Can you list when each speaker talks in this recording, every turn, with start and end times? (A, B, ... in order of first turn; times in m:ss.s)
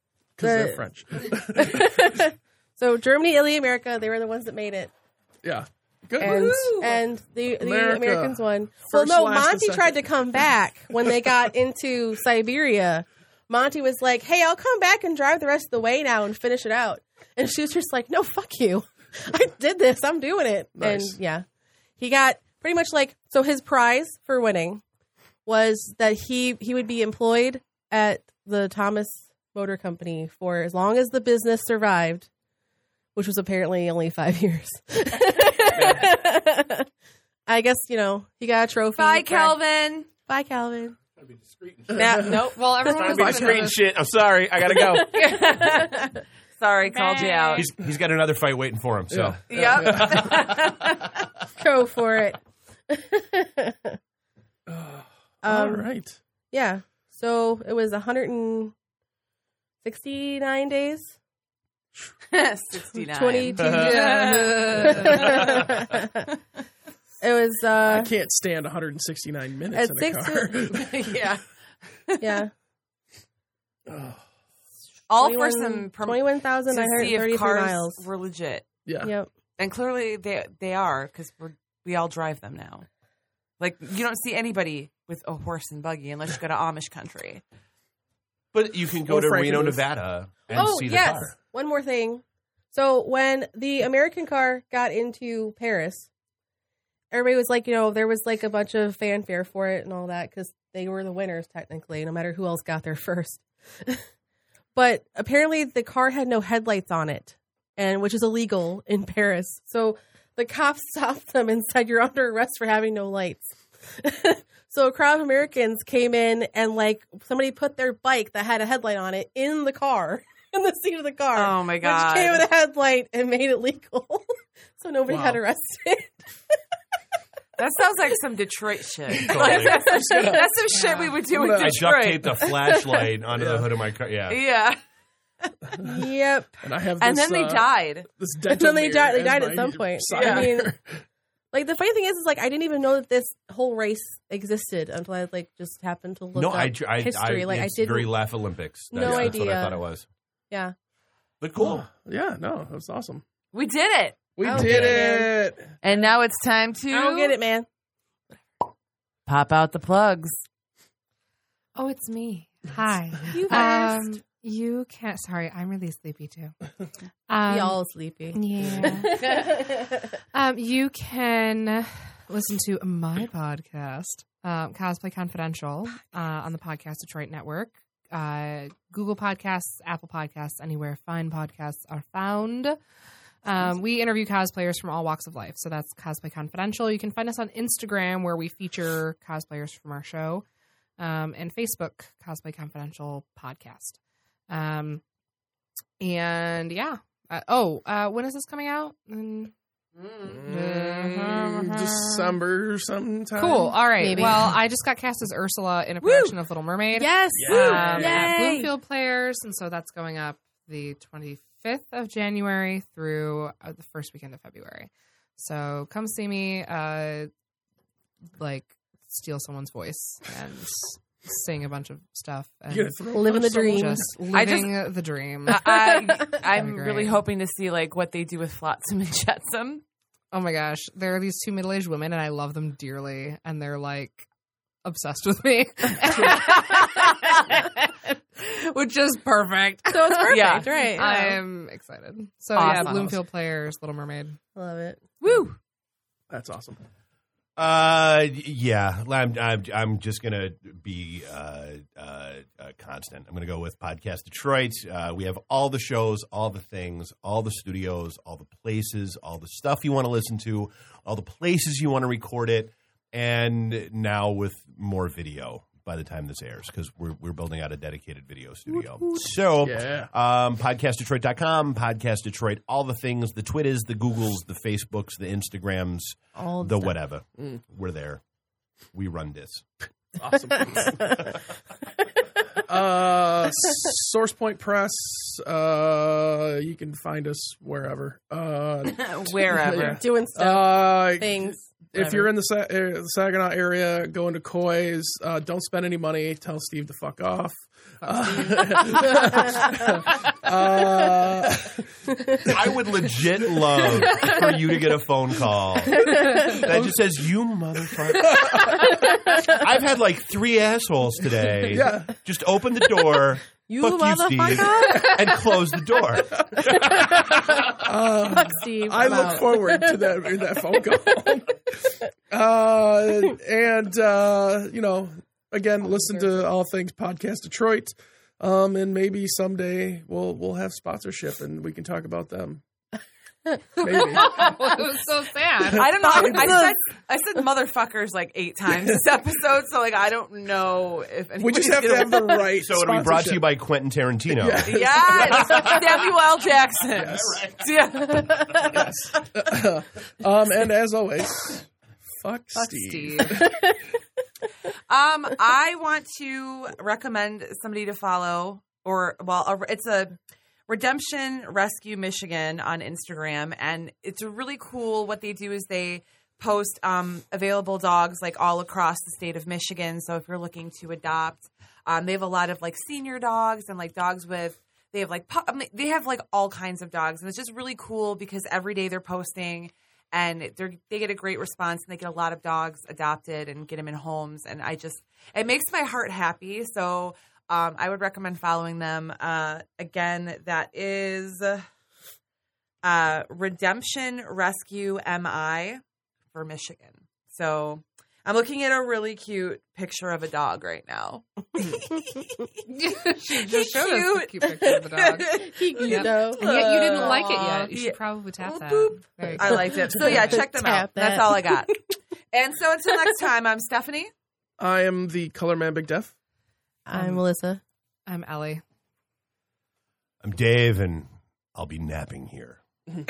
0:00.4-0:02.2 A
0:00.4-0:04.9 B
0:05.4-0:07.0 A
0:06.2-0:21.4 B
0:06.3-0:07.0 C
0:07.6-0:10.2 A
0:10.9-0:11.4 A
0:20.8-0:21.2 A
0:22.0-0:24.8 B
0:25.5-0:32.3 B
0:33.2-0:36.9 B
0:37.5-0:39.6 B
0:39.0-0:40.1 C
0:40.3-0:41.0 B
0:41.2-0:42.2 D
0:42.0-0:42.4 A
0:42.0-0:42.5 B
0:42.0-0:43.0 C
0:42.5-0:43.8 E
0:42.8-0:45.2 D
0:43.1-0:43.6 A
0:45.1-0:47.7 C
0:45.2-0:45.9 B
0:46.9-0:47.7 E
0:47.6-0:50.4 F
0:49.1-0:50.2 A
0:49.5-0:51.2 C
0:51.6-0:54.0 B
0:54.7-0:56.2 A
0:55.4-0:55.9 B
0:56.5-0:58.7 B
0:59.8-1:01.1 B
1:02.3-1:05.7 C
1:03.1-1:04.0 B
1:03.6-1:05.6 E
1:04.8-1:06.3 B
1:07.2-1:08.1 B
1:07.8-1:11.0 A
1:09.7-1:10.7 B
1:10.7-1:11.4 C
1:12.1-1:12.4 C
1:12.2-1:12.5 B
1:13.9-1:14.2 A
1:15.1-1:18.7 C
1:15.2-1:18.0 B
1:18.8-1:19.1 A
1:19.0-1:19.3 B
1:19.6-1:22.9 C
1:23.6-1:27.4 C
1:28.5-1:31.3 F
1:29.1-1:29.8 A
1:30.5-1:36.1 B
1:37.1-1:44.0 B
1:44.8-2:06.2 B
2:01.3-2:02.5 C
2:05.1-2:05.4 A
2:07.6-2:12.4 C
2:09.2-2:10.4 A
2:09.3-2:09.8 F
2:09.4-2:10.5 B
2:10.7-2:11.2 E
2:11.3-2:11.9 A
2:11.6-2:14.4 F
2:12.4-2:13.0 B
2:13.3-2:13.7 A
2:14.3-2:14.8 C
2:15.7-2:16.0 A
2:15.8-2:16.6 B
2:16.6-2:21.0 A
2:17.0-2:18.1 C
2:18.5-2:20.7 B
2:20.1-2:20.5 C
2:21.5-2:28.2 B
2:26.4-2:30.1 F
2:28.9-2:29.8 B
2:29.0-2:29.4 A
2:31.4-2:31.9 F
2:31.6-2:33.2 A
2:33.5-2:34.3 C
2:34.4-2:35.8 A
2:34.4-2:35.4 B
2:34.5-2:35.0 F
2:35.8-2:37.4 C
2:36.9-2:37.7 B
2:39.3-2:40.4 C
2:41.8-2:46.6 E
2:43.3-2:44.0 B
2:43.3-2:44.0 C
2:47.3-2:47.8 E
2:47.4-2:49.9 B
2:48.3-3:02.8 E
2:48.6-2:48.9 A
3:03.4-3:10.5 E
3:11.0-3:14.0 E
3:14.5-3:15.0 E
3:16.0-3:19.5 E
3:20.0-3:22.0 C
3:20.3-3:23.9 A
3:20.5-3:22.3 E
3:23.4-3:37.3 E
3:24.0-3:24.5 B
3:26.0-3:26.4 C
3:26.9-3:28.7 B
3:27.4-3:28.1 A
3:27.6-3:28.3 C
3:38.4-3:47.2 E
3:42.7-3:44.1 A
3:43.1-3:44.0 B
3:44.3-3:44.9 C
3:45.5-3:49.8 C
3:50.3-3:54.3 E
3:54.8-4:04.4 E
3:59.9-4:01.4 B
4:00.3-4:01.2 C
4:02.6-4:03.2 C
4:04.6-4:05.0 B
4:05.2-4:05.6 C
4:06.3-4:06.8 A
4:07.6-4:38.2 F
4:29.6-4:30.1 A
4:36.4-4:37.0 B
4:38.9-4:39.6 F
4:40.2-4:41.3 A
4:42.6-5:01.8 A
4:48.9-4:50.0 C
4:49.9-4:52.3 B
4:58.0-4:59.7 E
5:02.4-5:16.9 F
5:06.0-5:06.6 E
5:06.1-5:06.7 B
5:08.3-5:08.7 A
5:11.7-5:12.2 A
5:13.6-5:15.2 B
5:16.4-5:32.6 A
5:16.8-5:20.0 B
5:25.8-5:26.5 B
5:33.8-5:34.4 A
5:33.8-5:36.6 E
5:35.7-5:42.5 C
5:36.0-5:36.7 B
5:41.4-5:43.6 A
5:42.6-5:44.7 F
5:44.3-5:46.2 A
5:44.6-5:48.8 C
5:45.2-5:45.8 F
5:46.9-5:47.5 A
5:47.2-5:48.1 F
5:48.5-5:53.5 A
5:52.5-5:53.4 E
5:53.4-5:53.8 B
5:54.9-6:00.2 C
6:00.7-6:31.6 C
6:32.8-6:35.8 C
6:36.3-6:42.0 C
6:42.6-6:50.2 E
6:43.2-6:51.8 C
6:45.2-6:47.3 B
6:49.3-6:51.8 B
6:52.3-6:54.1 C
6:54.6-6:56.1 A
6:56.9-6:57.6 B
6:56.9-6:57.2 E
6:58.1-6:58.6 E
7:00.2-7:02.6 F